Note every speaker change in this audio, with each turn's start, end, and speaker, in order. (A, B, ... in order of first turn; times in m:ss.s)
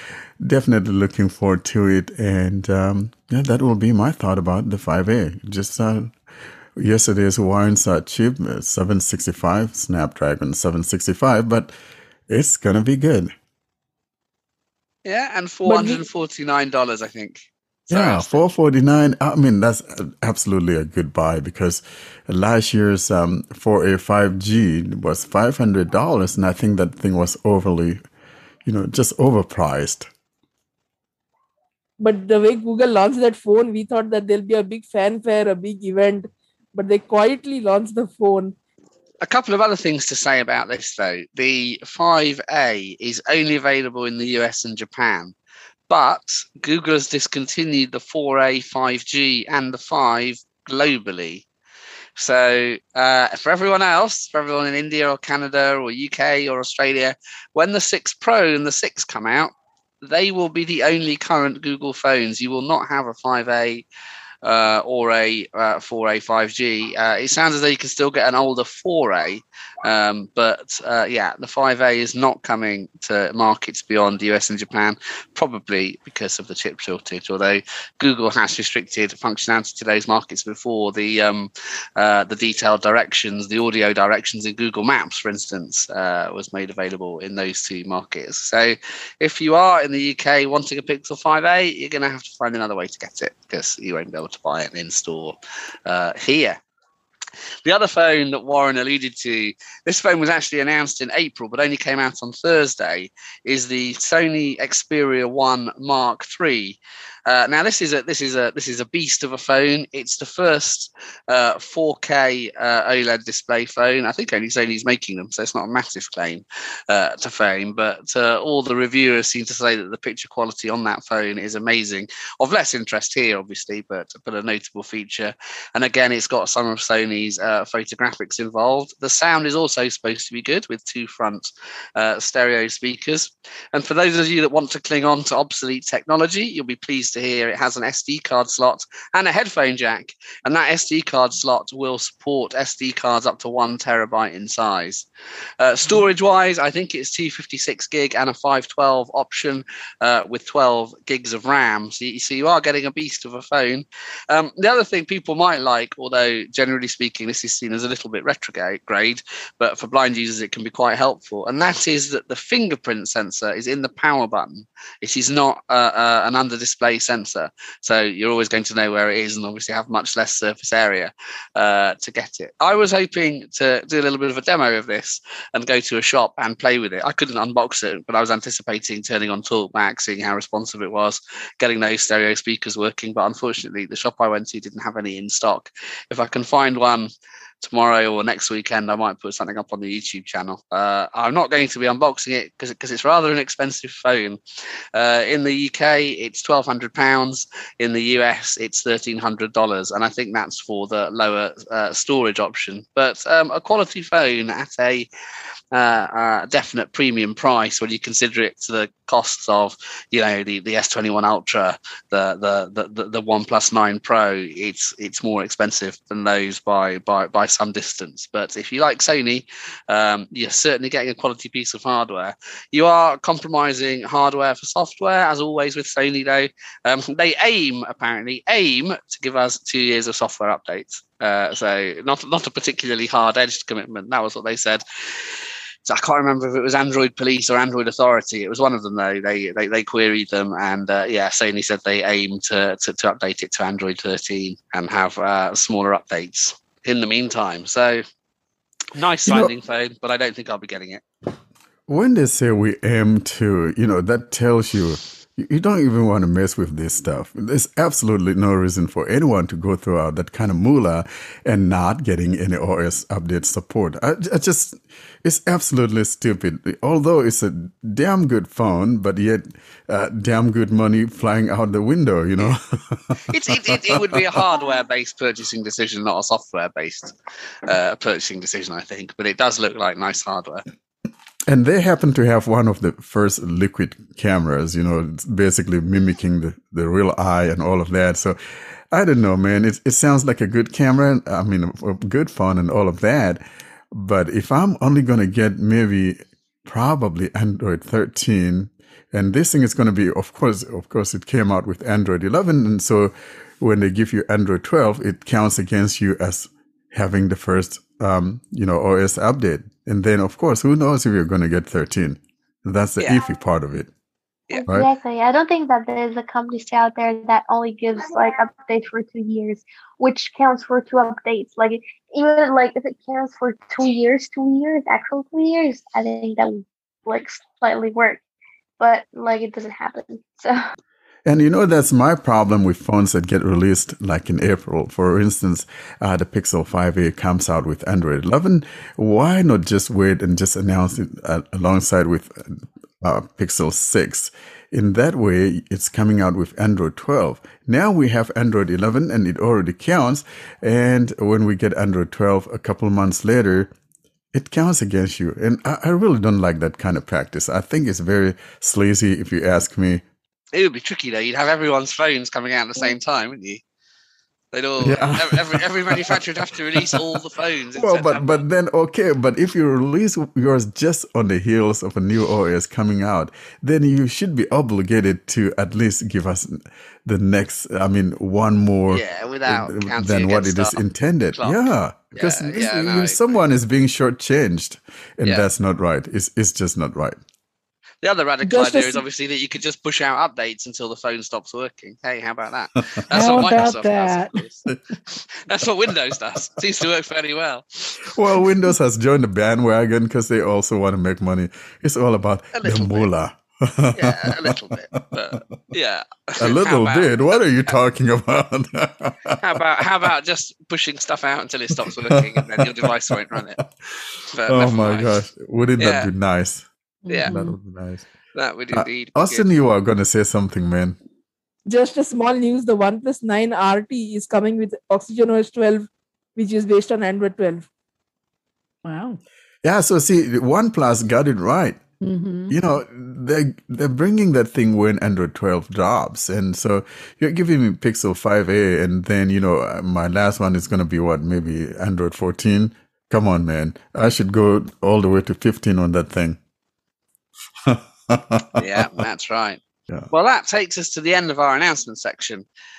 0:00.4-0:06.1 A
0:06.8-0:11.8 A
0:12.3-0:13.3 A
0:15.0-0:18.5 B
0:15.6-0:16.0 C
0:17.9-0:28.0 A
0:28.6-0:30.1 A
0:32.0-0:38.6 C
0:39.2-0:45.3 B
0:45.9-0:51.4 B
0:52.2-1:03.9 B
1:04.4-1:36.6 B
1:37.6-2:25.1 B
2:25.6-3:07.1 B
3:07.6-3:14.4 B
3:14.9-3:25.1 B
3:25.7-4:08.0 B
4:08.9-4:11.0 B
4:09.2-4:09.5 A
4:11.9-4:34.2 A
4:33.3-4:37.1 B
4:37.6-4:40.6 B
4:41.5-4:48.4 A
4:48.9-5:13.9 A
5:14.6-5:28.2 D
5:28.8-5:30.6 D
5:31.2-5:53.7 A
5:54.3-6:00.0 A
6:00.5-6:03.6 B
6:04.5-6:08.4 B
6:04.8-6:06.2 A
6:07.8-6:27.2 A
6:18.9-6:20.8 B
6:21.4-6:21.6 B
6:22.2-6:23.4 B
6:28.0-6:34.6 B
6:28.4-6:29.0 C
6:33.1-6:34.4 E
6:33.2-6:33.7 A
6:35.5-6:38.4 B
6:38.1-6:45.5 A
6:42.6-6:43.1 B
6:44.0-6:47.8 B
6:46.4-6:49.6 A
6:49.4-6:53.6 B
6:51.9-6:53.4 A
6:54.3-6:55.2 B
6:54.5-6:56.7 A
6:55.8-6:56.1 B
6:57.1-6:57.5 B
6:57.2-6:58.1 A
6:58.4-6:59.5 B
6:58.7-7:01.0 A
7:01.7-7:07.6 C
7:08.8-7:09.2 E
7:09.6-7:11.8 A
7:12.0-7:12.5 E
7:12.5-7:26.4 A
7:27.7-7:28.9 A
7:28.6-7:29.6 B
7:30.1-7:32.4 B